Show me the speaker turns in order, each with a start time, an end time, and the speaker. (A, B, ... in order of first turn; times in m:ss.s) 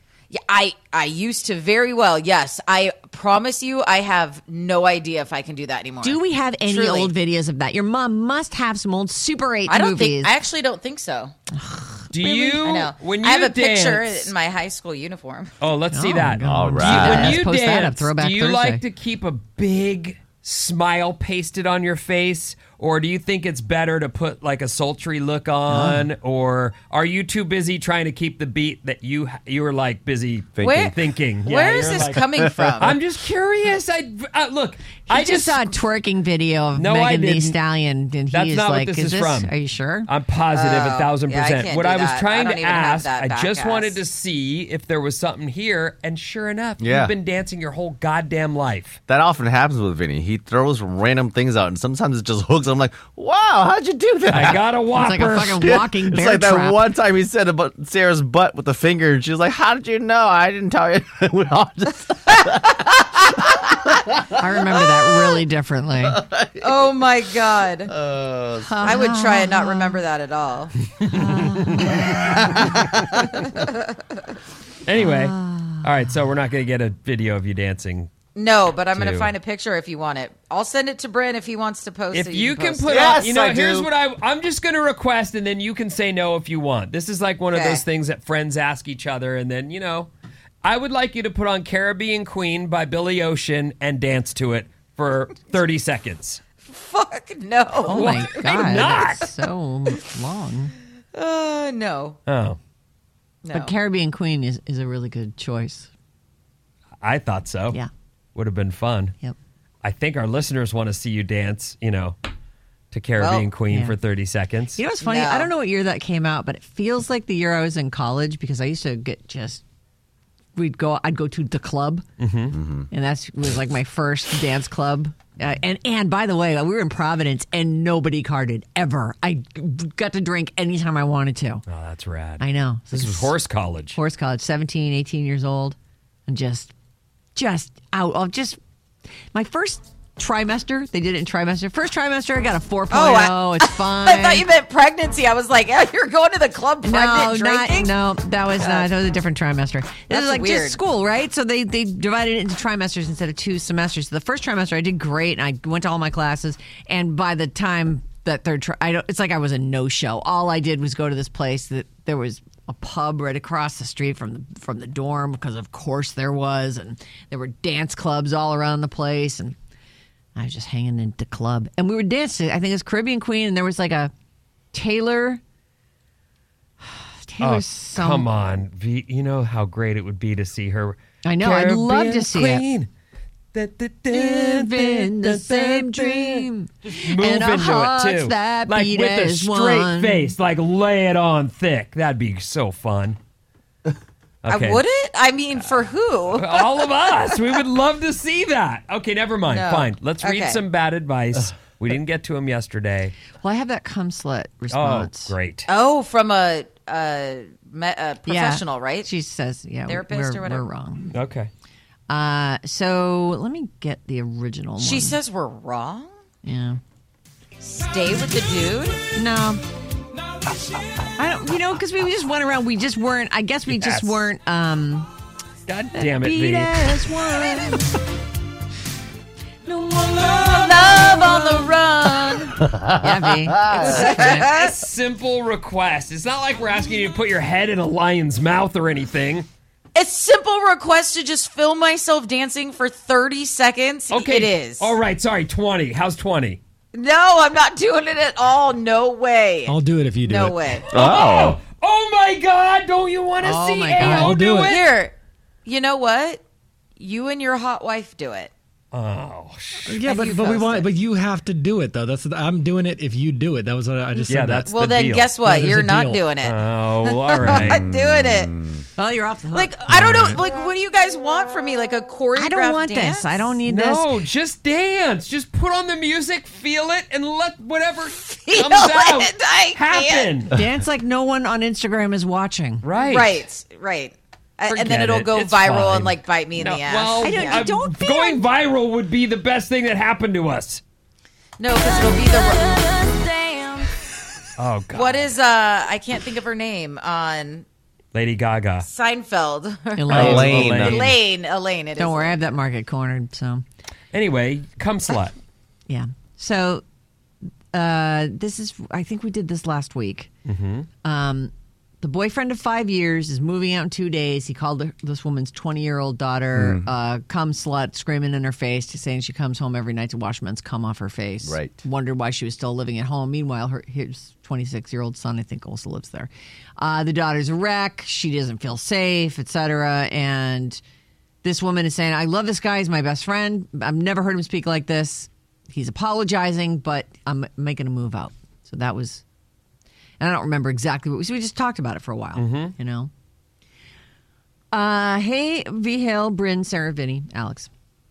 0:00.3-0:07.1 A
0:06.0-0:10.3 B
0:09.7-0:11.4 A
0:11.5-0:12.7 B
0:12.1-0:14.3 C
0:12.6-0:15.6 A
0:15.6-0:32.2 C
0:15.9-0:18.8 B
0:16.4-0:17.4 D
0:25.7-0:26.1 B
0:30.6-0:30.9 D
0:30.6-0:33.0 A
0:31.9-0:33.0 D
0:32.8-0:35.7 C
0:35.1-0:40.1 B
0:36.8-0:37.6 C
0:38.3-0:39.5 C
0:40.1-0:49.0 C
0:40.5-0:44.0 A
0:46.8-0:47.1 D
0:49.1-0:54.6 D
0:54.3-0:55.7 C
0:54.9-0:56.9 B
0:55.6-1:04.4 D
1:04.4-1:06.2 B
1:06.0-1:06.9 D
1:06.6-1:07.9 A
1:07.9-1:09.0 D
1:08.6-1:10.0 B
1:08.8-1:10.7 A
1:11.0-1:12.1 C
1:11.1-1:12.9 B
1:12.1-1:13.3 D
1:13.5-1:13.8 A
1:14.8-1:18.1 C
1:15.0-1:15.9 B
1:18.4-1:23.2 A
1:18.9-1:19.3 C
1:22.1-1:30.1 C
1:22.9-1:23.9 D
1:27.5-1:27.8 A
1:30.6-1:36.4 C
1:36.6-1:38.4 A
1:37.9-1:40.7 B
1:37.9-1:39.3 C
1:41.1-1:42.2 A
1:42.3-1:42.6 C
1:43.4-1:43.7 A
1:43.5-1:45.9 B
1:47.0-1:47.8 C
1:48.4-1:49.2 C
1:49.8-1:52.2 C
1:52.9-1:54.8 C
1:53.2-1:53.5 A
1:53.7-1:54.0 B
1:54.8-1:59.6 B
1:55.0-1:55.5 A
2:00.6-2:02.0 B
2:02.2-2:02.6 C
2:02.5-2:02.9 D
2:02.9-2:11.6 B
2:11.7-2:14.0 C
2:12.4-2:13.3 B
2:13.9-2:15.8 B
2:16.3-2:16.7 B
2:17.4-2:18.6 B
2:19.3-2:24.4 B
2:22.9-2:27.9 A
2:26.8-2:49.6 B
2:28.6-2:28.9 A
2:30.1-2:30.8 A
2:50.4-2:54.1 B
2:54.7-2:55.4 B
2:56.9-2:58.3 B
2:57.4-3:02.9 C
3:01.2-3:02.6 B
3:03.5-3:13.2 C
3:04.1-3:10.3 B
3:14.4-3:14.8 C
3:14.5-3:16.9 A
3:16.3-3:23.2 C
3:19.4-3:20.6 A
3:23.4-3:25.3 B
3:24.7-3:25.7 C
3:25.7-3:29.1 A
3:28.2-3:31.1 B
3:29.9-3:30.6 A
3:31.1-3:31.5 C
3:32.1-3:35.2 B
3:34.8-3:36.1 A
3:36.4-3:36.8 B
3:37.6-3:39.0 A
3:39.2-3:39.6 B
3:41.2-3:45.1 B
3:43.7-3:44.2 C
3:45.7-3:47.1 C
3:45.9-3:47.9 B
3:50.0-3:52.6 A
3:50.8-3:51.7 B
3:52.7-3:53.9 D
3:52.9-3:54.5 B
3:53.7-3:59.5 C
3:53.9-3:54.7 A
3:59.9-4:04.9 A
4:04.1-4:06.6 C
4:06.9-4:10.9 A
4:09.7-4:10.8 E
4:10.8-4:14.9 C
4:10.9-4:11.6 D
4:13.4-4:14.4 B
4:14.0-4:16.4 A
4:14.2-4:14.6 E
4:17.0-4:18.5 A
4:18.9-4:20.0 C
4:19.9-4:24.7 E
4:20.0-4:20.9 A
4:24.3-4:25.3 C
4:24.7-4:28.5 A
4:25.4-4:26.3 E
4:26.4-4:27.8 C
4:27.5-4:28.8 D
4:29.0-4:29.7 B
4:29.5-4:33.3 A
4:29.9-4:30.4 C
4:32.3-4:34.1 B
4:33.7-4:40.5 C
4:38.5-4:40.3 A
4:40.5-4:42.8 B
4:42.8-4:43.4 C
4:43.0-4:47.6 A
4:44.7-4:50.8 C
4:47.2-4:48.4 B
4:51.6-4:53.9 A
4:54.6-4:55.3 C
4:54.9-4:57.7 A
4:58.1-4:58.9 C
4:58.8-5:02.4 A
4:59.9-5:00.9 B
5:00.1-5:01.1 D
5:00.1-5:01.2 C
5:02.0-5:03.6 B
5:04.1-5:05.3 C
5:05.9-5:06.8 B
5:07.7-5:10.3 B
5:10.4-5:10.9 C
5:11.0-5:30.8 B
5:16.6-5:16.9 D
5:21.4-5:21.8 D
5:31.4-5:39.2 B
5:40.2-5:43.1 B
5:42.4-5:42.8 C
5:44.7-5:47.7 B